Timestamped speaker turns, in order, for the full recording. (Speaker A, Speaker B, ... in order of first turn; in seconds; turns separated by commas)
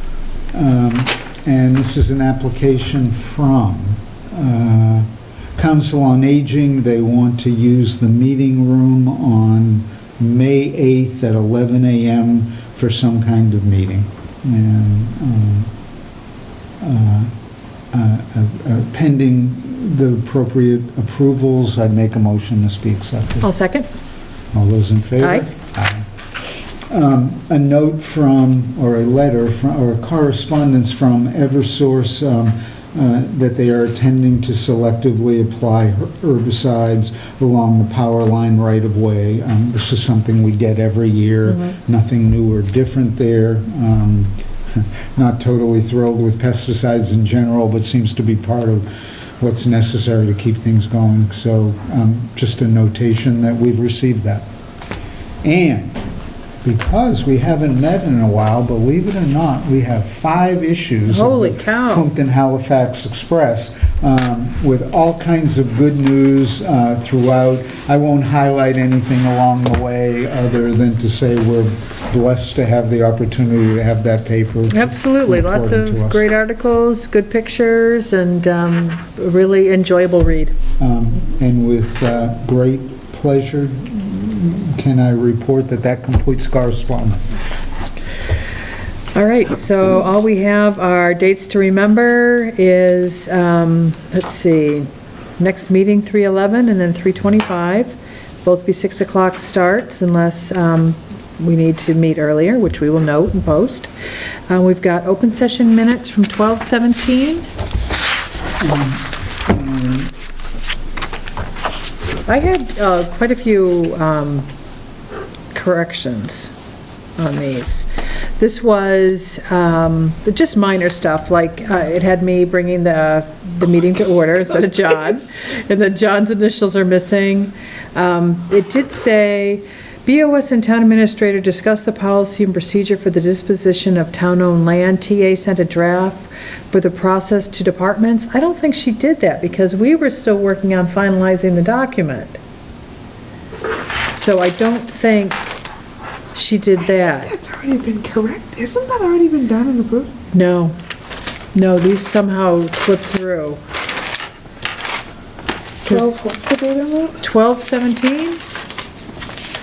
Speaker A: 0.5-15.7, Speaker A: 16.8-17.3, Speaker A: 17.9-23.5, Speaker B: 23.4-23.9, Speaker A: 24.5-48.9, Speaker B: 25.2-25.5, Speaker B: 41.5-41.8, Speaker A: 49.4-54.5, Speaker A: 55.4-56.0, Speaker A: 56.6-76.2, Speaker B: 61.1-62.1, Speaker B: 74.7-80.5, Speaker A: 80.8-87.4, Speaker B: 89.1-103.9, Speaker B: 104.5-107.5, Speaker A: 108.6-110.1, Speaker B: 112.3-114.5, Speaker B: 115.5-116.5, Speaker B: 117.2-117.9, Speaker B: 118.4-142.4, Speaker B: 144.1-145.6, Speaker B: 146.3-147.3, Speaker C: 147.0-150.1, Speaker B: 150.3-150.8, Speaker B: 151.5-153.6, Speaker C: 155.8-157.2, Speaker B: 155.9-156.2, Speaker B: 157.2-158.4